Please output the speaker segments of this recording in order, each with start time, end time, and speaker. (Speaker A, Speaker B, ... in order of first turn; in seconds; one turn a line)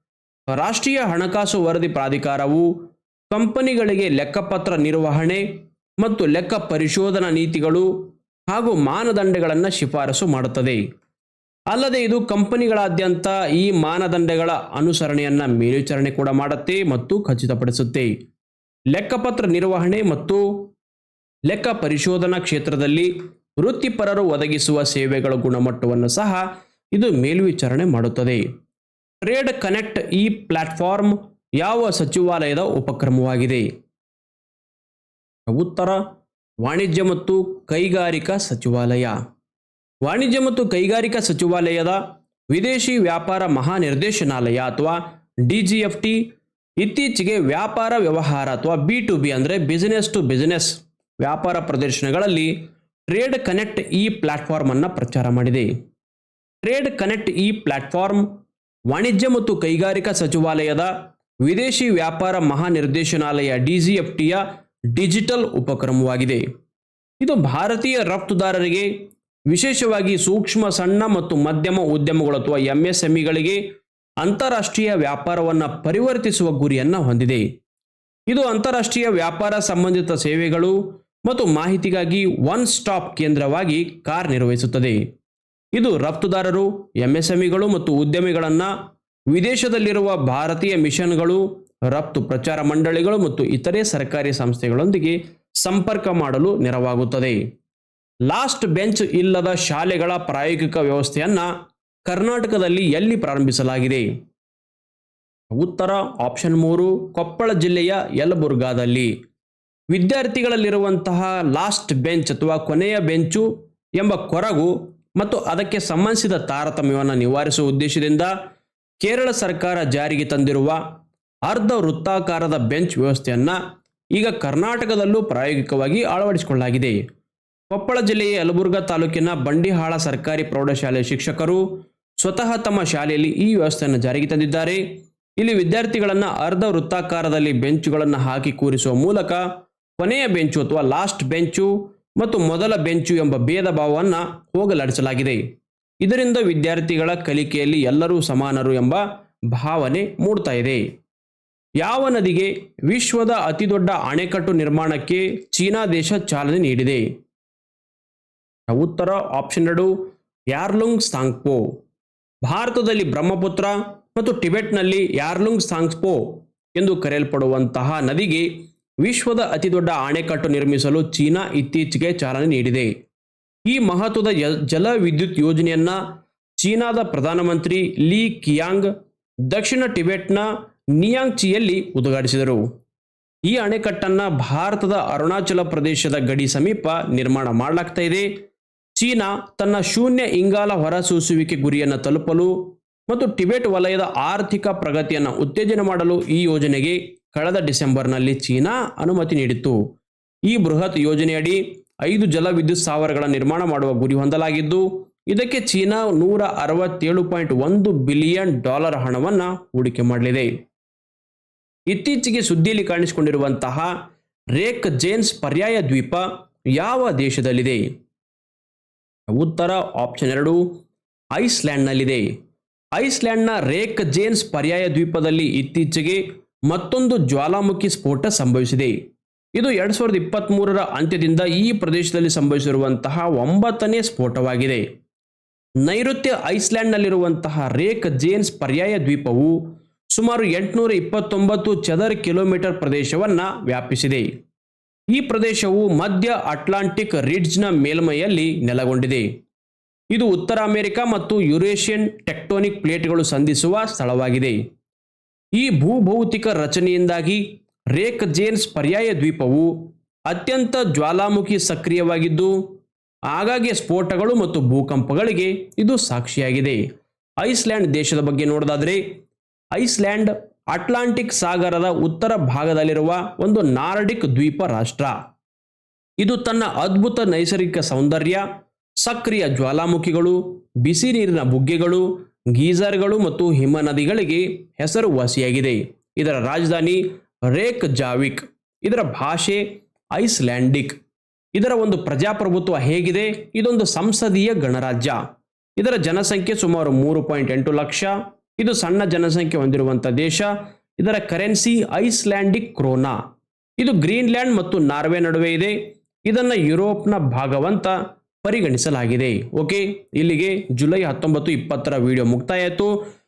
Speaker A: 0.5-2.7
Speaker A: 3.3-5.4
Speaker A: 6.0-7.9
Speaker A: 8.5-10.8
Speaker A: 11.7-18.1
Speaker A: 18.9-20.4
Speaker A: 21.5-28.4
Speaker A: 29.2-33.7
Speaker A: 35.5-36.0
Speaker A: 36.6-39.1
Speaker A: 40.0-42.0
Speaker A: 42.5-46.2
Speaker A: 46.8-52.5
Speaker A: 53.1-55.7
Speaker A: 56.6-58.2
Speaker A: 58.9-60.9
Speaker A: 61.4-64.4
Speaker A: 64.9-66.4
Speaker A: 67.2-68.9
Speaker A: 69.5-73.6
Speaker A: 74.2-77.4
Speaker A: 78.3-85.0
Speaker A: 85.8-88.7
Speaker A: 89.3-97.4
Speaker A: 98.3-101.5
Speaker A: 102.1-104.1
Speaker A: 105.5-109.1
Speaker A: 109.9-113.5
Speaker A: 114.0-118.3
Speaker A: 119.0-120.8
Speaker A: 121.5-123.6
Speaker A: 124.1-127.0
Speaker A: 127.7-131.6
Speaker A: 132.2-134.8
Speaker A: 135.4-139.4
Speaker A: 140.0-145.4
Speaker A: 146.0-150.8
Speaker A: 151.8-157.1
Speaker A: 158.7-159.9
Speaker A: 160.5-161.6
Speaker A: 162.4-168.5
Speaker A: 169.0-172.9
Speaker A: 173.7-176.0
Speaker A: 176.6-178.9
Speaker A: 179.5-182.6
Speaker A: 183.5-188.3
Speaker A: 189.0-192.6
Speaker A: 193.1-199.8
Speaker A: 200.5-210.5
Speaker A: 211.9-213.9
Speaker A: 214.5-217.8
Speaker A: 219.3-220.6
Speaker A: 221.3-222.2
Speaker A: 222.9-228.9
Speaker A: 229.6-234.8
Speaker A: 235.8-239.6
Speaker A: 240.1-244.3
Speaker A: 245.1-249.3
Speaker A: 250.1-254.6
Speaker A: 255.6-257.4
Speaker A: 257.9-259.7
Speaker A: 260.3-262.5
Speaker A: 263.3-266.8
Speaker A: 267.4-269.0
Speaker A: 269.7-275.1
Speaker A: 276.2-278.4
Speaker A: 279.0-289.6
Speaker A: 290.1-291.0
Speaker A: 291.6-295.2
Speaker A: 295.8-303.1
Speaker A: 303.8-312.9